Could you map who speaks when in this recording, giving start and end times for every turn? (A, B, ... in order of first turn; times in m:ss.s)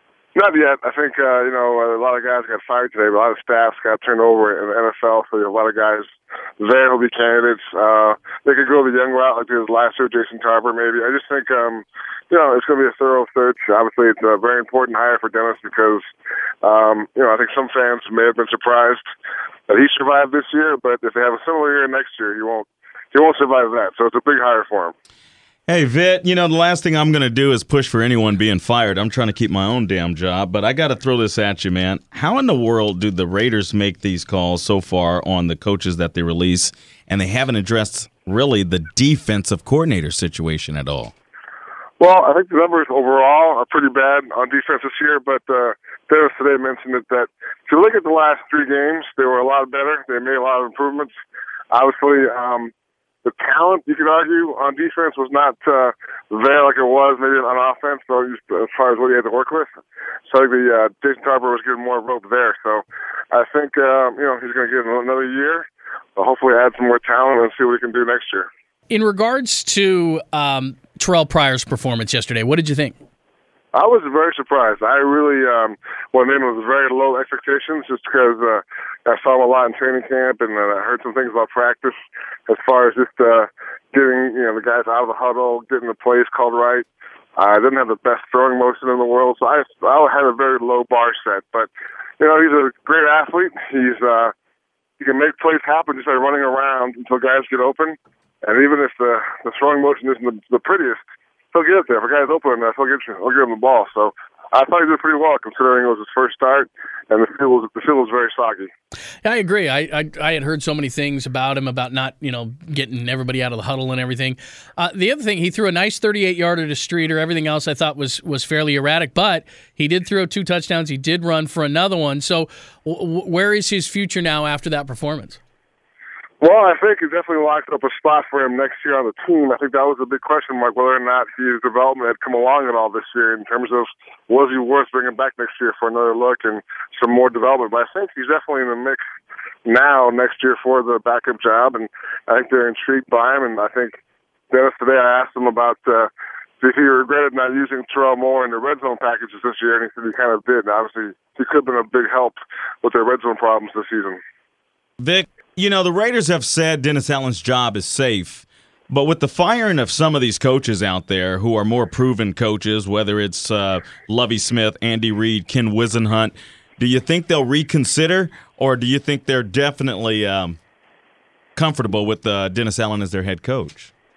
0:00.4-0:16.1 A
0:16.6-0:19.0 A
0:19.7-0:24.9 A
0:25.7-0:41.1 B
0:42.0-0:51.1 A
0:51.7-0:52.7 A
0:53.2-0:59.8 A
1:00.3-1:08.5 A
1:08.9-1:13.0 C
1:13.7-1:34.3 A
1:35.0-1:48.7 A
1:49.2-2:05.4 C
2:06.4-2:19.0 A
2:19.7-2:24.0 A
2:24.5-2:26.1 A
2:26.6-2:34.2 A
2:35.0-2:50.6 B
2:51.6-2:53.9 B